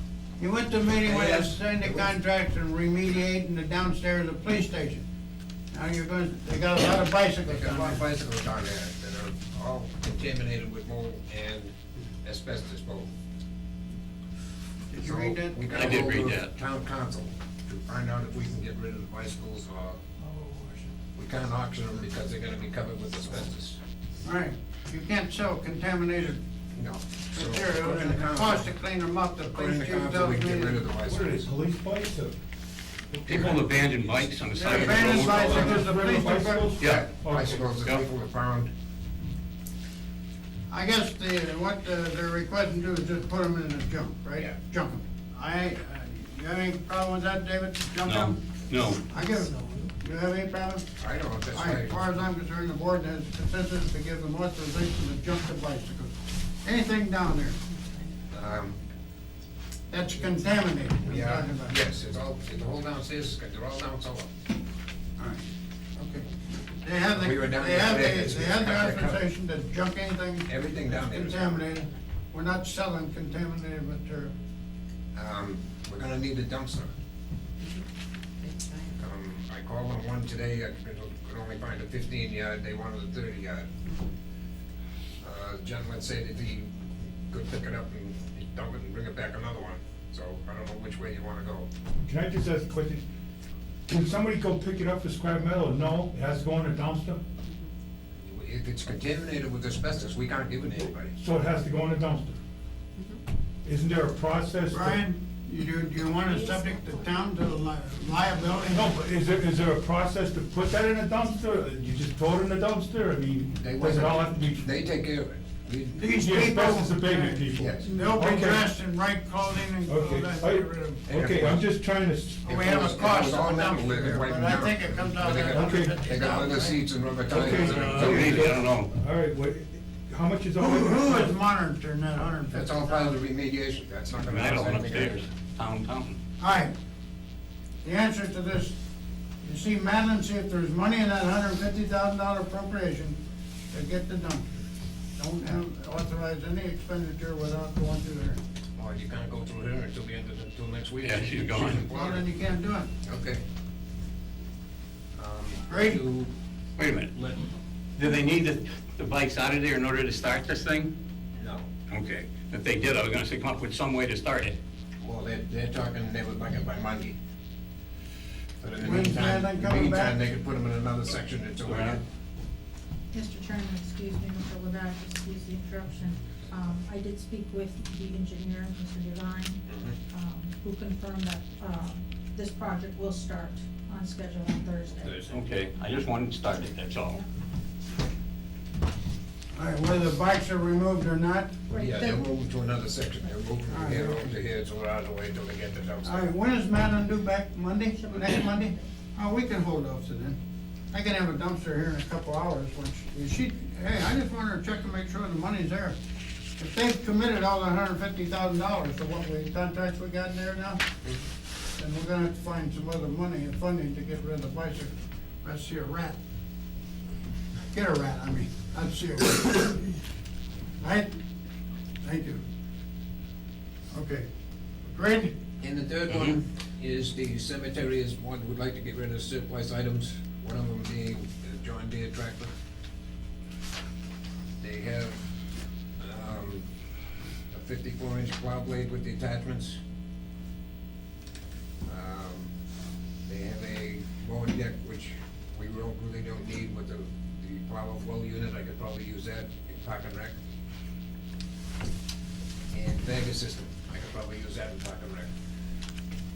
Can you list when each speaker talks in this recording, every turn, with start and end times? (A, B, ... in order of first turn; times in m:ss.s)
0:00.4-0:05.0 A
0:01.1-0:02.1 B
0:05.7-0:08.0 A
0:07.4-0:11.7 B
0:12.2-0:13.1 B
0:14.9-0:15.6 A
0:15.0-0:20.0 B
0:15.7-0:16.5 C
0:20.3-0:20.9 A
0:21.2-0:23.8 B
0:24.2-0:26.4 A
0:26.7-0:28.8 B
0:27.3-0:30.8 A
0:29.5-0:31.3 B
0:31.0-0:32.4 D
0:33.1-0:33.6 D
0:33.3-0:35.6 C
0:34.6-0:36.7 A
0:34.8-0:37.7 D
0:35.4-0:35.8 B
0:36.8-0:38.7 B
0:40.7-0:48.4 A
0:48.0-0:49.0 C
0:49.1-0:50.8 A
0:51.0-0:52.0 B
0:51.5-0:57.6 A
0:58.3-0:58.8 B
0:59.9-1:01.8 A
1:01.1-1:04.3 B
1:06.0-1:06.3 A
1:06.8-1:14.3 A
1:07.1-1:09.2 B
1:10.5-1:11.6 B
1:15.1-1:16.9 B
1:19.0-1:23.7 B
1:25.2-1:26.7 B
1:27.3-1:31.7 B
1:32.0-1:33.0 D
1:33.9-1:37.2 D
1:38.2-1:41.2 B
1:41.2-1:42.4 D
1:43.6-1:45.0 D
1:44.7-1:48.9 A
1:48.7-1:54.7 D
1:53.6-1:56.1 B
1:56.0-2:01.0 A
1:56.2-1:58.7 D
1:57.6-1:58.0 B
1:59.9-2:02.5 D
2:01.1-2:01.6 B
2:02.4-2:06.8 A
2:02.5-2:08.5 B
2:05.5-2:06.4 D
2:07.3-2:11.4 D
2:07.5-2:08.9 C
2:10.6-2:13.2 A
2:12.5-2:15.2 B
2:14.2-2:16.2 C
2:16.4-2:16.7 A
2:17.8-2:18.8 A
2:19.4-2:23.2 A
2:23.7-2:24.5 A
2:25.2-2:28.4 A
2:28.8-2:32.2 B
2:31.0-2:31.8 C
2:31.9-2:32.9 A
2:33.0-2:33.4 B
2:35.2-2:36.3 B
2:35.7-2:36.0 A
2:36.8-2:37.1 C
2:38.0-2:40.9 C
2:41.3-2:41.7 B
2:41.9-2:44.6 C
2:45.0-2:47.2 B
2:48.6-2:52.0 B
2:48.8-2:50.2 A
2:51.7-2:52.0 C
2:53.1-3:05.3 E
2:59.7-3:00.0 B
3:05.0-3:05.4 B
3:05.3-3:07.2 C
3:09.5-3:11.6 A
3:11.7-3:12.6 E
3:11.7-3:16.3 B
3:13.7-3:14.3 A
3:16.0-3:20.4 A
3:17.9-3:18.9 E
3:20.9-3:26.0 A
3:26.6-3:30.8 A
3:31.8-3:36.2 A
3:37.7-3:39.9 A
3:40.8-3:41.1 A
3:42.0-3:42.4 A
3:43.9-3:44.3 A
3:44.8-3:45.3 A
3:45.6-3:52.5 B
3:46.1-3:46.4 C
3:54.6-3:55.2 B
3:56.0-3:56.6 B
3:57.5-3:59.8 B
4:01.9-4:02.5 B
4:03.2-4:10.4 B
4:12.7-4:15.3 B